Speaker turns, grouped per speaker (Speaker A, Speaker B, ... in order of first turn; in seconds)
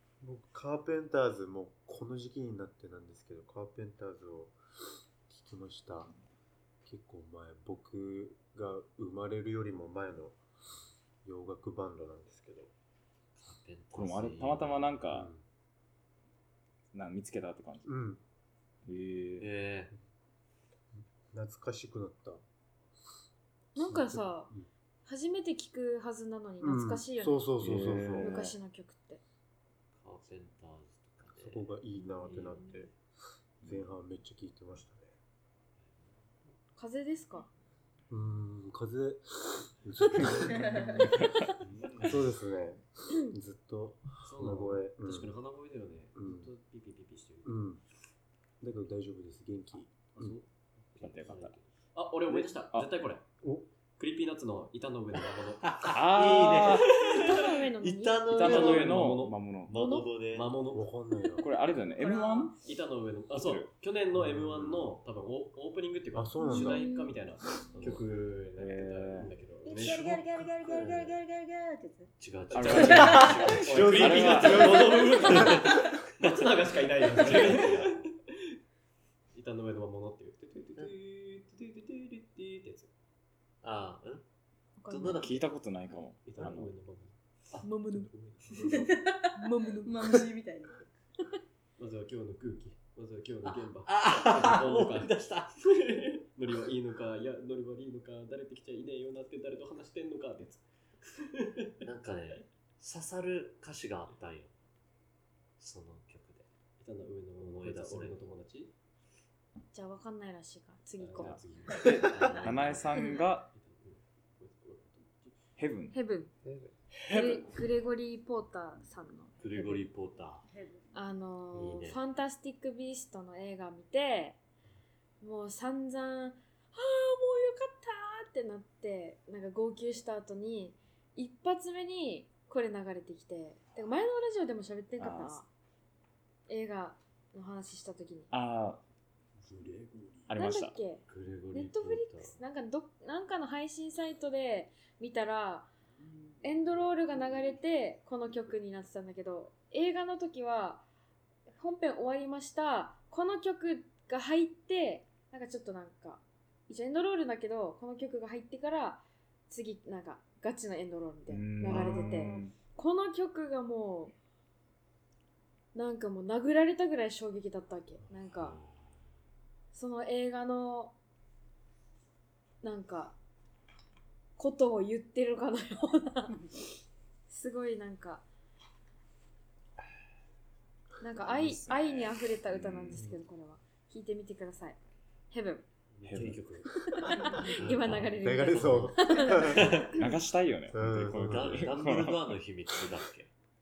Speaker A: 0.2-4.6, 5.3-6.1, 6.8-10.4, 11.2-12.7, 15.1-15.4, 17.9-18.2, 20.9-22.4, 23.8-24.7, 26.6-28.4, 31.4-33.0, 33.6-35.1, 38.1-41.1, 42.0-45.3, 46.1-46.5, 47.4-47.8, 48.6-50.4, 53.4-53.7, 60.7-61.5, 64.2-64.8, 66.1-66.9, 73.5-75.8, 116.4-116.7, 139.4-140.3, 187.0-189.9, 190.7-191.7
Speaker B: 13.4-15.0, 19.4-19.9, 30.0-31.7, 32.3-32.8, 55.6-59.1, 59.7-60.5, 67.7-68.0, 69.8-71.2, 72.2-78.0, 83.6-84.2, 84.9-85.5, 93.5-95.5, 101.8-104.5, 105.6-106.5, 107.4-108.2, 111.8-113.1, 119.4-120.5, 121.5-122.0, 141.1-142.4, 168.3-169.0, 187.4-190.1, 191.1-193.3
Speaker C: 13.9-15.3, 16.9-17.9, 18.9-19.5, 27.6-28.6, 41.0-42.1, 51.0-51.5, 52.3-52.9, 55.9-57.0, 58.3-60.0, 61.4-62.6, 63.3-63.7, 68.6-69.3, 72.5-74.8, 85.1-86.7, 111.2-113.5, 115.6-116.0, 135.0-135.4, 138.3-138.8, 140.3-140.8, 161.3-162.6, 181.5-183.1, 186.1-186.4, 189.9-192.4
Speaker D: 23.8-24.5, 25.1-27.5, 28.1-29.2, 32.2-32.5, 36.8-37.5, 57.0-58.9, 59.7-60.1, 66.4-67.2, 84.8-85.3, 87.6-88.1, 89.3-90.2, 109.7-111.4, 115.9-116.3, 117.1-119.9, 120.9-124.4, 125.2-135.5, 136.5-138.3, 140.3-145.7, 146.4-150.8, 151.6-164.2, 165.7-168.6, 169.7-170.9, 172.6-173.2, 174.4-176.4, 177.3-178.2, 181.0-184.8, 185.3-185.7, 186.9-189.7
Speaker E: 40.5-41.1, 61.8-62.5, 69.6-72.1, 72.7-73.5, 88.7-89.3, 89.8-90.8, 120.5-120.9, 161.8-162.4
Speaker F: 44.2-47.5, 50.1-53.3, 54.0-55.8, 58.4-59.4, 60.2-60.9, 62.6-70.1, 72.5-78.1, 79.3-82.9, 86.2-88.9, 91.8-101.7, 106.8-108.7, 111.0-115.4, 185.9-186.7